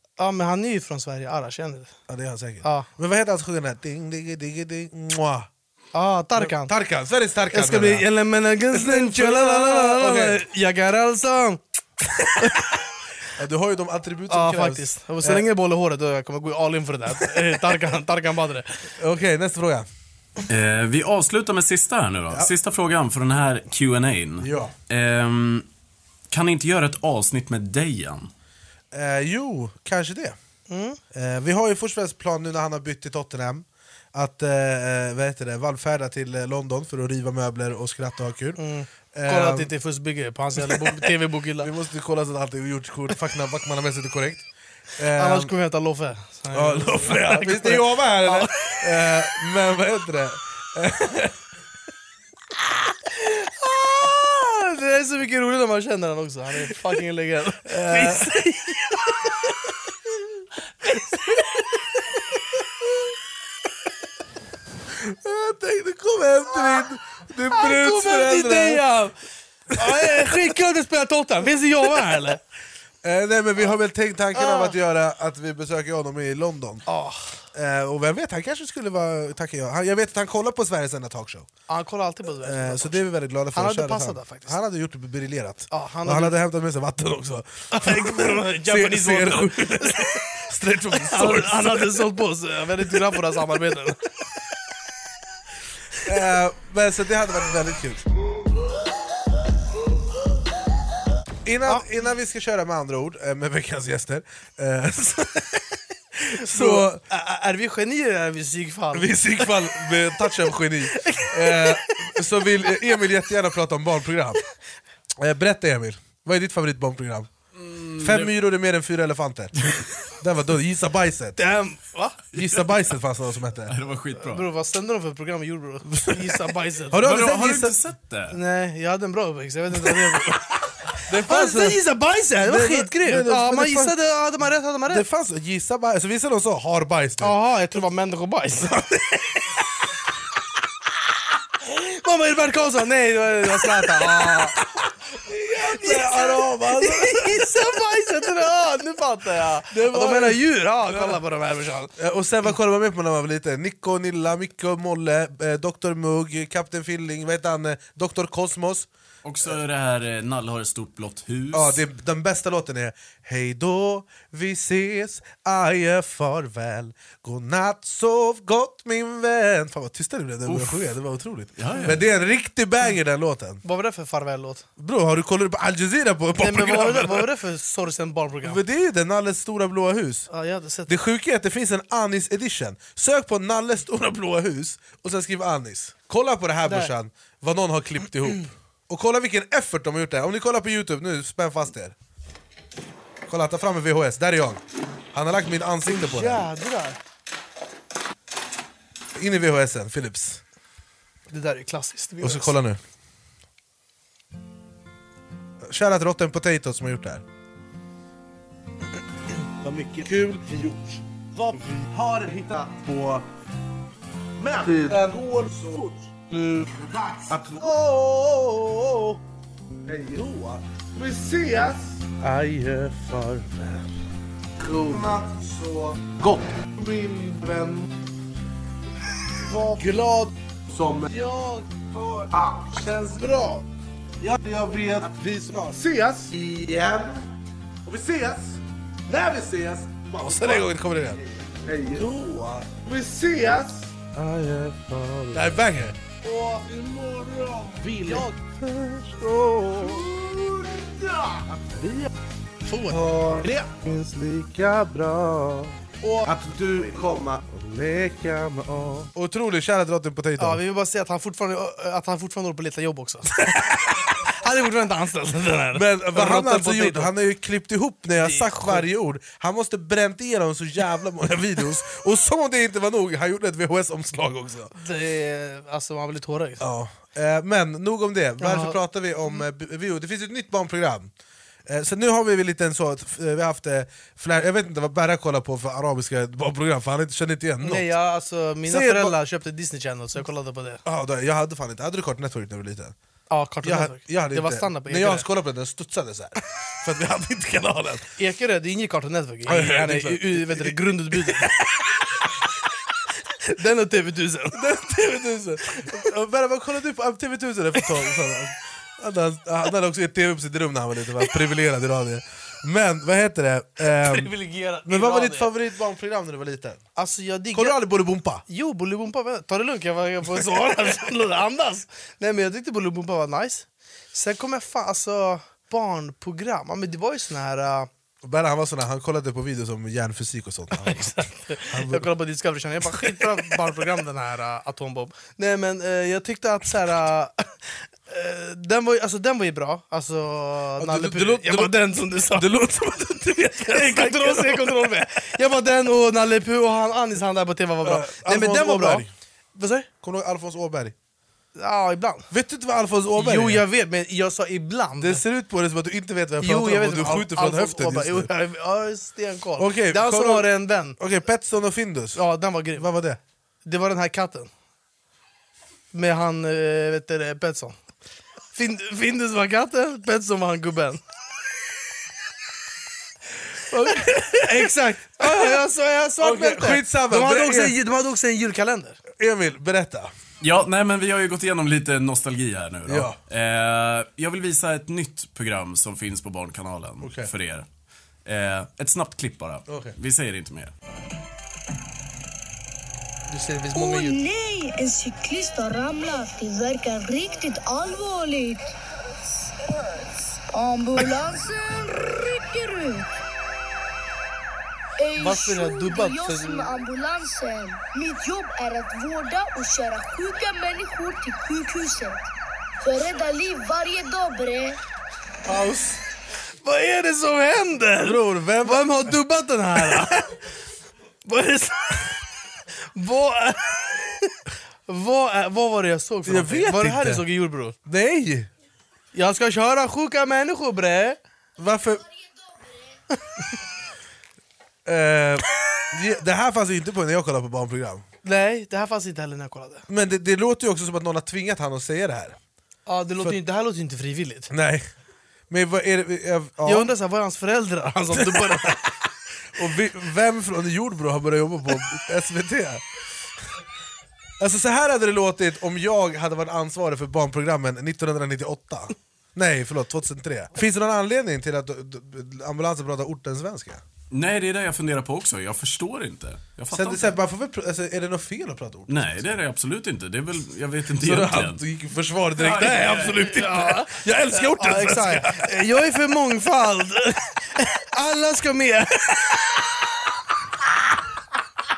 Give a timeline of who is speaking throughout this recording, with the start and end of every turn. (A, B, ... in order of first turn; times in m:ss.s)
0:00.2-0:01.9 A
0:02.1-0:05.5 B
0:02.6-0:02.9 A
0:05.9-0:06.7 A
0:06.4-0:08.1 B
0:07.5-0:11.6 A
0:08.7-0:10.4 B
0:12.4-0:12.7 A
0:13.3-0:15.4 B
0:14.3-0:18.8 A
0:19.0-0:19.9 B
0:20.5-0:25.7 C
0:24.4-0:24.7 B
0:26.3-0:28.3 C
0:28.9-0:30.4 B
0:30.7-0:31.0 A
0:31.1-0:38.6 B
0:38.6-0:41.7 A
0:39.1-0:39.7 B
0:40.6-0:44.5 B
0:45.0-0:45.5 B
0:45.2-0:48.8 A
0:46.5-0:51.4 B
0:53.1-0:59.4 A
0:57.7-0:58.4 B
1:00.8-1:01.7 A
1:04.9-1:08.8 B
1:07.5-1:09.2 A
1:09.7-1:12.4 A
1:09.8-1:10.4 B
1:13.0-1:16.9 B
1:14.3-1:14.8 A
1:16.9-1:17.4 A
1:17.5-1:21.5 B
1:21.7-1:24.6 A
1:22.4-1:32.1 B
1:25.7-1:26.4 A
1:27.7-1:30.2 A
1:30.9-1:34.0 A
1:36.0-1:38.0 B
1:41.4-1:47.0 B
1:46.4-1:49.5 A
1:48.9-1:54.4 B
1:50.9-1:51.9 A
1:55.2-1:57.3 B
1:57.6-1:58.3 C
1:58.0-2:01.4 B
2:01.4-2:02.2 A
2:02.3-2:03.8 B
2:03.7-2:04.5 C
2:04.2-2:07.1 A
2:05.9-2:07.8 B
2:07.0-2:08.4 C
2:08.3-2:10.5 A
2:11.1-2:11.8 B
2:11.2-2:15.0 A
2:12.4-2:14.0 B
2:14.9-2:17.4 B
2:17.2-2:18.8 A
2:18.6-2:19.0 B
2:21.6-2:24.6 A
2:24.2-2:27.6 B
2:25.5-2:31.9 A
2:29.7-2:31.2 B
2:32.0-2:38.9 B
2:39.2-2:41.8 C
2:41.5-2:53.6 B
2:50.5-2:50.9 C
2:51.6-2:52.1 C
2:53.6-2:54.7 A
2:54.8-2:57.3 B
2:56.4-2:58.6 A
2:58.4-3:00.3 B
3:00.3-3:01.0 A
3:00.9-3:12.0 B
3:06.6-3:06.9 A
3:13.3-3:14.6 B
3:15.1-3:16.5 B
3:15.8-3:17.0 A
3:19.2-3:20.4 B
3:21.3-3:22.6 A
3:22.2-3:22.8 B
3:25.6-3:27.2 B
3:29.7-3:30.8 D
3:31.4-3:33.2 D
3:34.4-3:38.2 D
3:37.4-3:39.1 B
3:39.9-3:42.0 D
3:42.2-3:43.6 B
3:44.6-3:47.8 D
3:49.4-3:53.6 D
3:50.8-3:51.0 B
3:54.2-3:57.2 D
3:57.9-3:58.6 D
3:59.3-4:00.6 D
4:00.0-4:01.2 B
4:01.6-4:05.5 D
4:02.0-4:02.6 B
4:05.3-4:06.0 B
4:06.2-4:08.4 D
4:08.9-4:10.0 B
4:09.5-4:12.0 D
4:12.6-4:13.0 A
4:12.9-4:15.7 D
4:16.2-4:19.1 D
4:19.1-4:20.6 B
4:20.4-4:23.6 A
4:24.2-4:27.1 A
4:25.7-4:34.7 B
4:28.2-4:28.9 A
4:34.8-4:36.6 A
4:36.6-4:41.1 B
4:38.4-4:38.8 A
4:41.7-4:47.9 B
4:47.6-4:50.8 A
4:48.7-4:49.2 B
4:50.8-4:53.0 B
4:53.3-4:55.3 A
4:53.6-4:58.1 B
4:58.2-5:01.6 A
4:59.5-5:01.5 B
5:03.4-5:04.6 A
5:04.5-5:14.3 B
5:13.9-5:15.5 A
5:14.9-5:16.8 B
5:17.0-5:17.8 A
5:17.5-5:18.4 B
5:18.5-5:27.9 A
5:28.2-5:32.1 B
5:30.8-5:37.5 A
5:32.9-5:33.6 B
5:38.1-5:42.5 A
5:40.8-5:44.9 B
5:43.7-5:49.9 A
5:47.8-5:49.1 B
5:50.0-5:51.0 B
5:51.6-5:52.3 A
5:52.3-5:53.6 B
5:53.2-5:55.2 A
5:55.0-5:58.3 B
5:56.4-6:01.0 A
5:59.6-6:03.2 B
6:02.2-6:02.9 A
6:03.6-6:04.5 A
6:05.9-6:07.8 A
6:08.5-6:11.0 A
6:13.7-6:15.6 B
6:14.4-6:19.0 A
6:16.2-6:17.8 B
6:19.2-6:20.1 B
6:20.4-6:27.7 C
6:22.9-6:23.2 B
6:27.0-6:27.3 B
6:28.2-6:30.7 C
6:29.7-6:30.0 B
6:33.3-6:34.2 A
6:33.7-6:38.8 E
6:39.4-6:43.1 E
6:45.0-6:52.2 E
6:45.2-6:46.7 A
6:52.8-6:54.8 E
6:55.5-6:56.0 B
6:56.6-7:00.4 A
6:58.0-6:59.2 B
7:01.3-7:02.1 A
7:03.0-7:07.8 A
7:06.3-7:07.2 B
7:07.8-7:08.5 B
7:09.1-7:11.2 A
7:11.6-7:12.0 B
7:14.8-7:18.0 B
7:18.2-7:19.8 A
7:19.9-7:22.4 B
7:22.9-7:24.5 A
7:24.5-7:24.9 B
7:25.5-7:26.9 B
7:26.6-7:28.9 A
7:28.1-7:28.8 B
7:29.6-7:32.8 B
7:34.4-7:43.8 B
7:44.1-7:47.2 C
7:46.7-7:49.1 B
7:48.9-7:51.6 C
7:51.0-7:55.5 B
7:52.4-7:53.3 C
7:52.7-7:59.5 A